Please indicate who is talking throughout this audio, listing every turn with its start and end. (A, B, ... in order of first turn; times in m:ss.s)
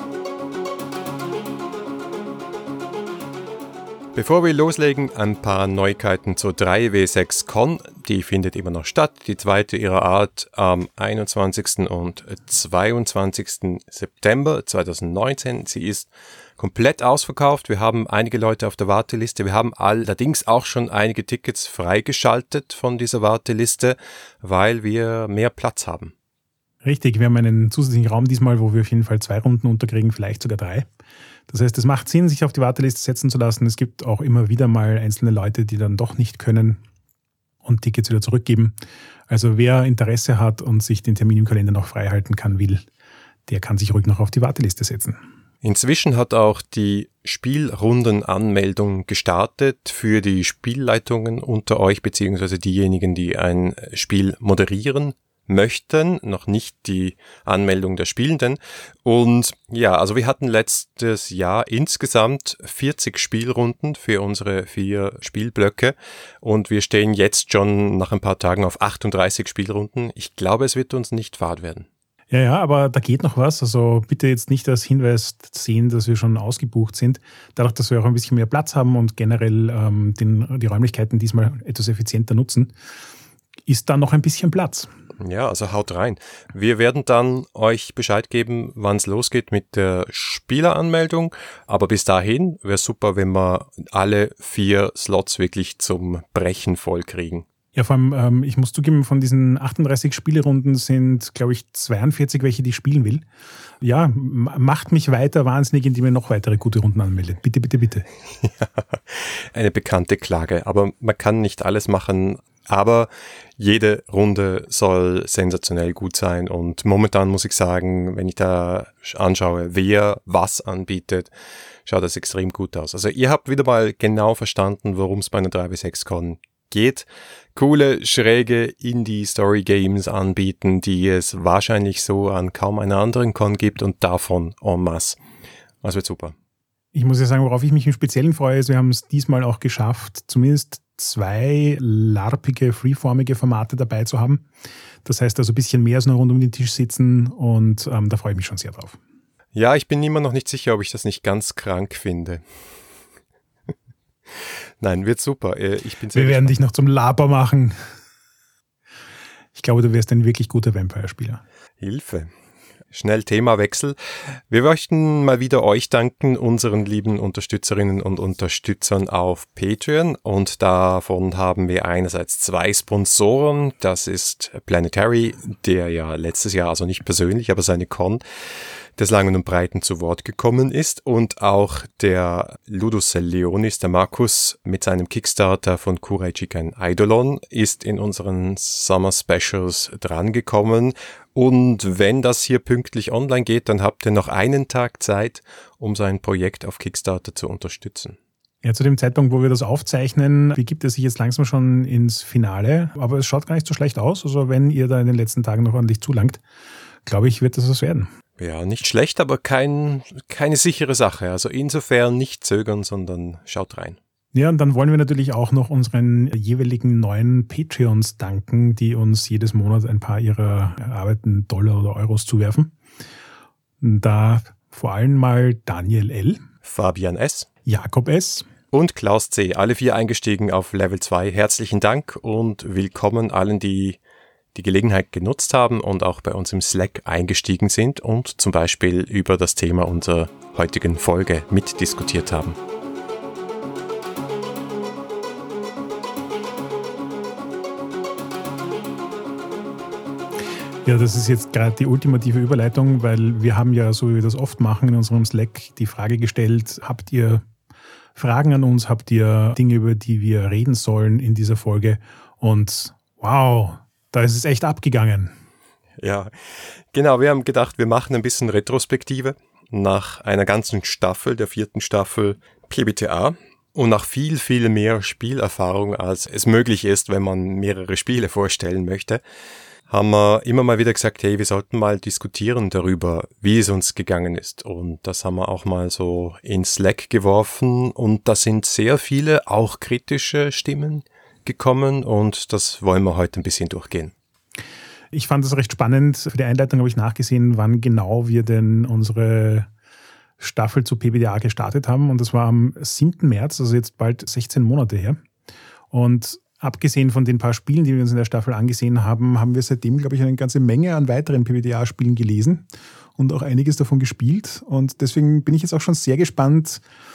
0:04.1-0:26.1 A
0:26.8-0:30.8 B
0:31.5-0:36.8 B
0:37.6-0:38.7 B
0:39.3-0:42.8 B
0:43.5-0:45.2 B
0:45.6-1:11.9 A
1:12.3-1:22.7 B
1:23.7-1:24.9 B
1:25.2-1:37.5 A
1:37.7-1:43.2 B
1:43.8-1:48.1 B
1:48.4-2:01.3 A
2:01.8-2:15.2 A
2:15.8-2:16.3 A
2:16.9-2:24.4 B
2:25.0-2:29.0 B
2:29.5-2:32.4 A
2:34.8-2:36.5 A
2:36.1-2:37.8 B
2:39.5-2:41.4 B
2:41.8-2:42.3 A
2:42.9-2:58.2 A
2:59.0-3:18.2 A
3:18.6-3:26.4 B
3:27.0-3:28.1 B
3:28.4-3:34.0 A
3:34.3-3:42.7 B
3:43.8-3:46.4 B
3:46.6-3:47.5 A
3:47.6-3:48.5 B
3:48.7-3:54.0 A
3:54.5-4:02.6 A
4:10.8-4:17.4 B
4:18.2-4:25.3 B
4:26.0-4:39.2 A
4:39.9-4:54.1 A
4:55.1-4:59.7 B
5:00.4-5:05.2 B
5:05.9-5:12.6 B
5:13.2-5:16.8 B